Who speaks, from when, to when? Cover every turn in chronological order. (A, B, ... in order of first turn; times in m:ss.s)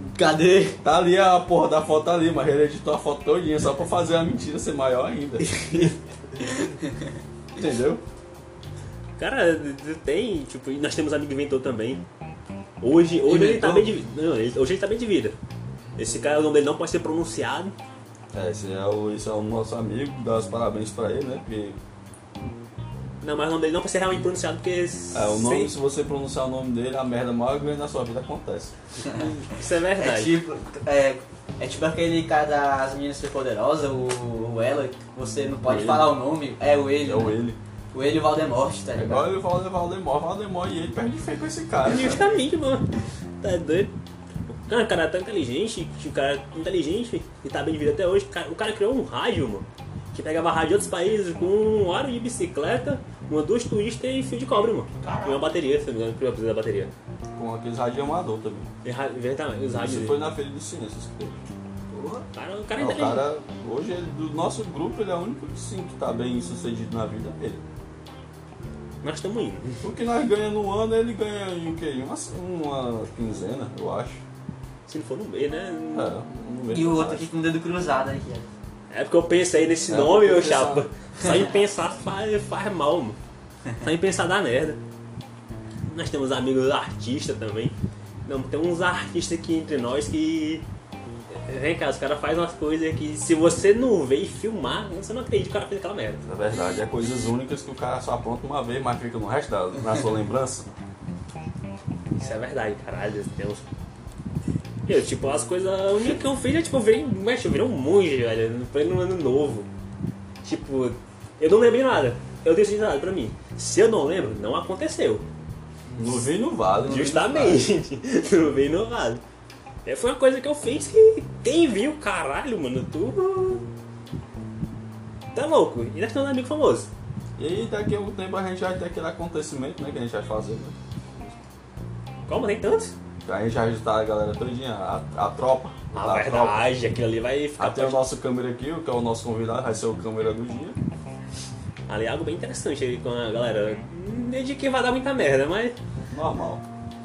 0:00.1-0:00.8 A
0:00.8-0:05.9 B
0:05.5-0:06.9 A
0:07.5-0:08.0 B
0:09.2-0:12.0 C
0:12.8-0:15.4 C
0:13.2-0:13.9 A
0:16.0-0:17.7 C
0:18.3-0:21.8 B
0:23.2-0:25.7 C
0:25.1-0:28.7 B
0:29.1-0:30.3 C
0:30.0-0:37.4 A
0:35.6-0:36.2 B
0:37.0-0:37.6 B
0:37.9-0:39.3 A
0:38.9-0:42.3 B
0:41.8-0:42.9 C
0:43.4-0:43.9 C
0:44.6-0:56.9 C
0:55.0-0:55.4 A
0:57.4-0:58.7 B
0:58.8-1:00.2 C
0:59.7-1:01.4 B
1:01.9-1:02.2 A
1:02.3-1:03.2 C
1:02.8-1:07.6 B
1:09.0-1:09.8 C
1:09.8-1:14.2 B
1:14.9-1:16.1 C
1:15.9-1:17.3 B
1:16.7-1:18.5 A
1:18.9-1:23.2 C
1:19.9-1:20.9 B
1:23.8-1:24.8 C
1:25.8-1:27.7 C
1:28.2-1:30.6 C
1:31.3-1:36.2 C
1:36.2-1:40.7 B
1:42.2-1:43.6 C
1:44.9-1:49.7 C
1:50.4-1:55.2 C
1:55.9-1:56.3 A
1:56.0-1:57.7 B
1:56.8-1:59.2 C
1:59.8-2:03.6 C
2:05.3-2:06.9 C
2:07.4-2:10.8 B
2:12.3-2:12.9 C
2:13.2-2:16.7 B
2:15.9-2:18.1 C
2:17.6-2:20.8 B
2:21.9-2:25.8 C
2:26.1-2:26.6 B